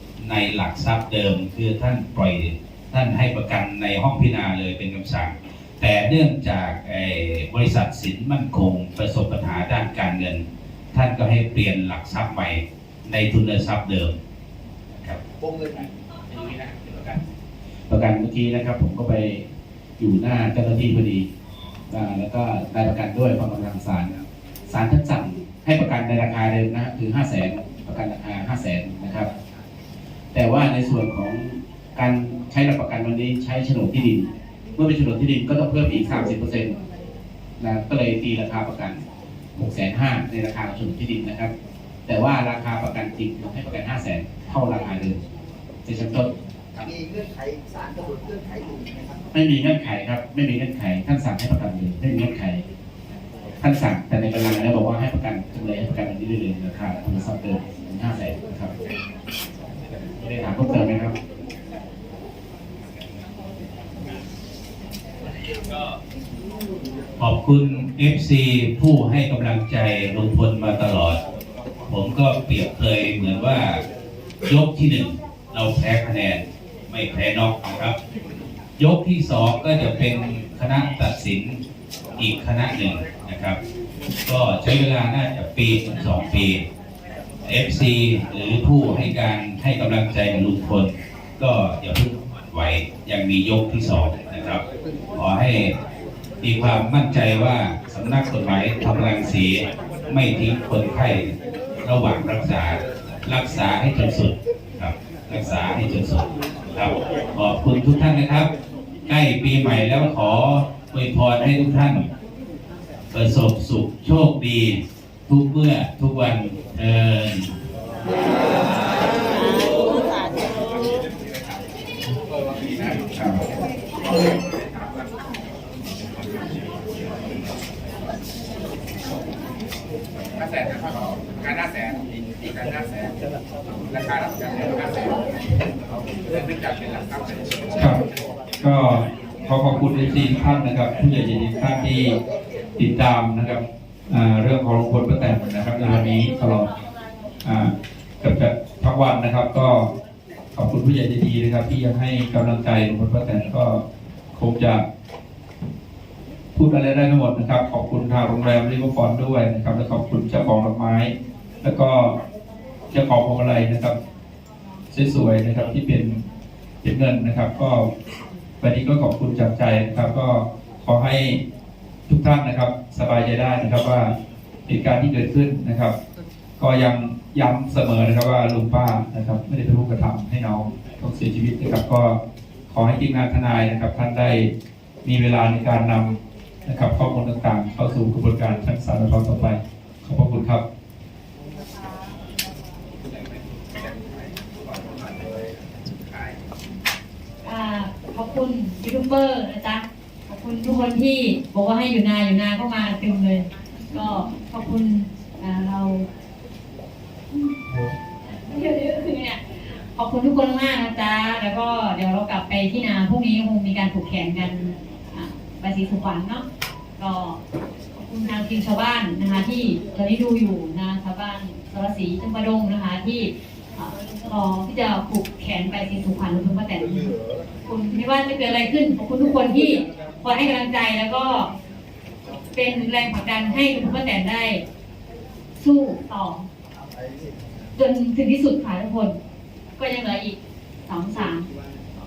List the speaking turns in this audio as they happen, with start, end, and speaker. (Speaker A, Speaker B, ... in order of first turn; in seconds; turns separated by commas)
Speaker A: 0.2-14.1, Speaker B: 15.4-15.9, Speaker C: 17.9-21.3, Speaker C: 21.9-24.1, Speaker C: 24.7-29.3, Speaker C: 30.3-36.8, Speaker C: 37.6-39.0, Speaker C: 39.6-41.5, Speaker C: 42.1-45.2, Speaker C: 45.9-46.3, Speaker B: 46.8-49.2, Speaker C: 49.3-52.6, Speaker C: 53.6-58.7, Speaker C: 60.2-61.1, Speaker A: 67.2-71.2, Speaker A: 71.9-73.8, Speaker A: 74.5-78.0, Speaker A: 78.8-81.6, Speaker A: 82.2-83.6, Speaker A: 84.3-86.6, Speaker A: 87.5-94.6, Speaker A: 95.2-95.7, Speaker A: 96.4-108.5, Speaker A: 109.1-112.0, Speaker A: 113.1-117.5, Speaker D: 119.0-121.6, Speaker D: 122.3-123.6, Speaker C: 123.2-123.4, Speaker D: 124.2-125.2, Speaker D: 126.2-126.6, Speaker D: 130.4-133.2, Speaker D: 133.9-135.6, Speaker D: 136.3-137.7, Speaker E: 137.8-138.0, Speaker E: 138.6-142.2, Speaker E: 142.8-146.7, Speaker E: 147.4-149.9, Speaker E: 150.6-153.8, Speaker E: 154.3-154.8, Speaker E: 156.6-161.1, Speaker E: 161.6-162.2, Speaker E: 162.9-164.0, Speaker E: 164.9-166.2, Speaker E: 166.8-167.9, Speaker E: 168.6-171.4, Speaker E: 172.1-174.1, Speaker E: 174.7-175.9, Speaker E: 176.6-182.2, Speaker E: 182.7-184.5, Speaker E: 185.0-190.6, Speaker D: 193.0-196.4, Speaker F: 197.4-206.1, Speaker F: 208.3-216.4, Speaker F: 217.0-217.4, Speaker F: 217.9-227.1, Speaker F: 227.7-231.5, Speaker F: 232.5-234.6, Speaker F: 235.6-236.5, Speaker F: 237.8-239.2, Speaker F: 239.8-240.4, Speaker F: 240.9-241.5